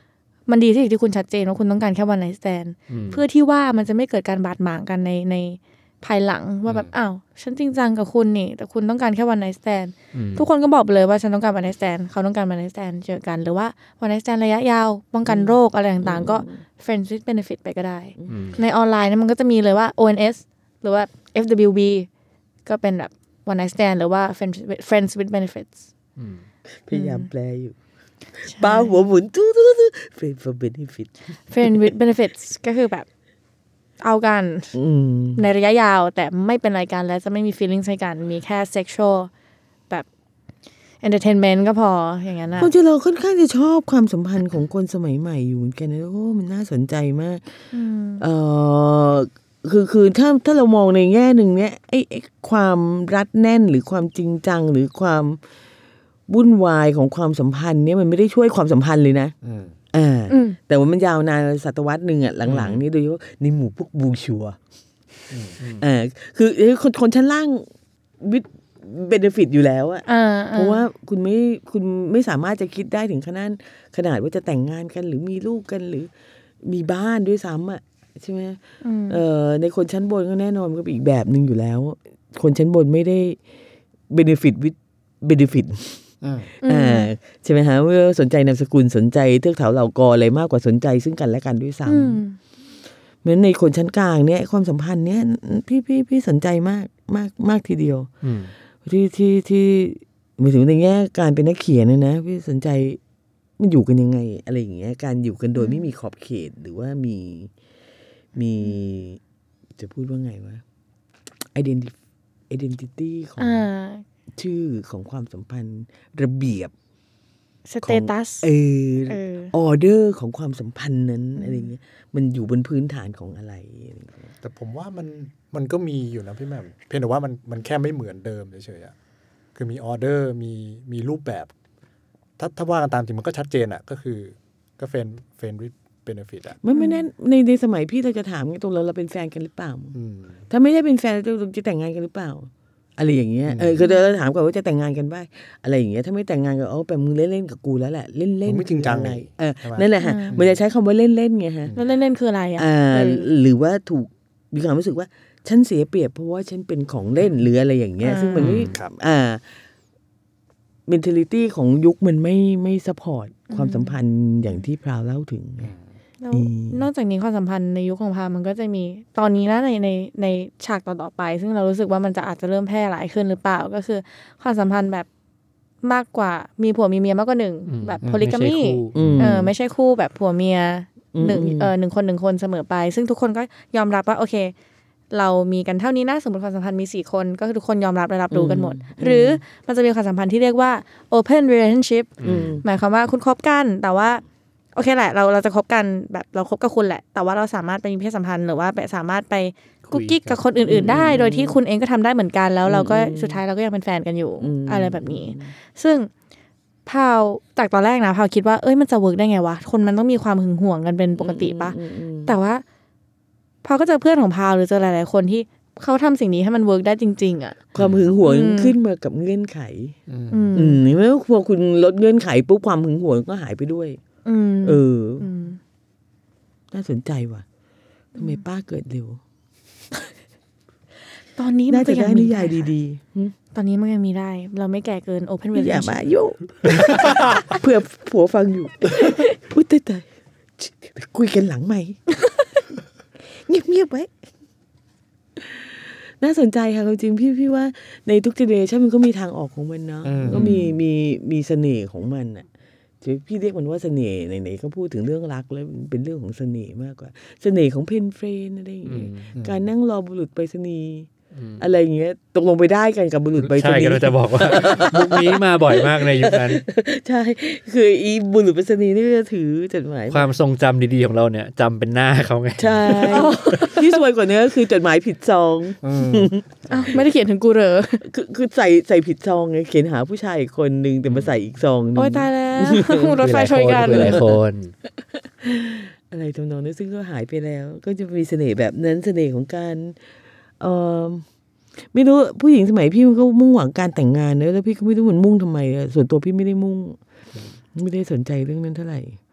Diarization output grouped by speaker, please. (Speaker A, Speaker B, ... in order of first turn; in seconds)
Speaker A: 0.5-22.1, 22.6-25.8, 26.9-27.3, 28.4-28.9, 31.5-33.1, 34.0-34.7, 35.4-39.3, 41.0-42.7, 47.7-48.2, 60.3-60.6, 70.1-70.8, 78.8-79.2, 86.6-87.1, 91.8-92.4, 105.5-105.9, 113.4-114.0, 117.7-118.5, 119.1-119.5, 121.4-121.7, 136.7-137.0, 150.0-150.3, 151.7-153.3, 158.0-158.6, 163.5-163.9, 166.2-175.1, 175.8-184.5, 185.1-194.2, 194.7-206.1, 206.8-212.6, 213.6-217.6, 218.2-218.7, 220.3-220.8, 224.2-225.6, 231.3-232.7, 233.5-236.0, 238.9-239.3, 273.1-274.0, 276.7-278.0, 281.9-284.2
Speaker B: 2.9-3.2, 10.1-10.5, 18.3-18.6, 26.2-26.4, 62.5-62.7, 98.2-98.5, 158.4-158.7, 177.7-179.0, 192.2-192.6, 199.9-201.0, 258.9-259.3, 261.3-261.6, 263.4-266.6, 270.1-273.6, 283.2-284.7
Speaker C: 15.2-16.6, 18.2-18.6, 26.9-27.8, 28.4-31.8, 34.7-35.4, 42.6-47.6, 48.2-55.4, 56.3-59.3, 59.9-64.6, 65.8-67.7, 68.2-76.1, 76.6-83.4, 84.1-86.0, 86.6-92.2, 93.2-98.1, 98.8-103.0, 103.6-107.5, 108.3-109.2, 109.8-110.6, 111.5-111.9, 112.5-113.7, 114.3-116.7, 117.8-124.3, 136.6-139.9, 140.5-151.7, 152.6-159.5, 160.9-165.7, 166.3-166.8, 178.9-179.5, 181.1-181.7, 188.3-189.4, 192.2-192.6, 200.7-201.6, 202.6-203.4, 204.4-205.5, 211.2-212.3, 217.7-219.9, 220.5-224.0, 224.6-225.3, 226.7-227.4, 228.1-229.2, 231.7-233.3, 235.5-240.1, 240.6-242.0, 243.3-244.2, 245.4-252.5, 253.0-270.3, 272.6-276.9, 278.0-283.2, 283.8-284.4, 285.1-290.0, 290.6-291.2, 291.9-297.0, 297.7-299.2
Speaker D: 59.4-59.7, 65.3-65.6, 86.2-86.5, 124.4-128.9, 129.6-131.5, 132.4-136.6, 139.9-140.4, 143.5-143.8, 148.4-150.6, 158.5-158.9, 178.9-179.3, 217.8-218.1, 220.1-220.5, 236.7-237.4, 250.0-250.6, 259.3-259.6, 275.8-277.0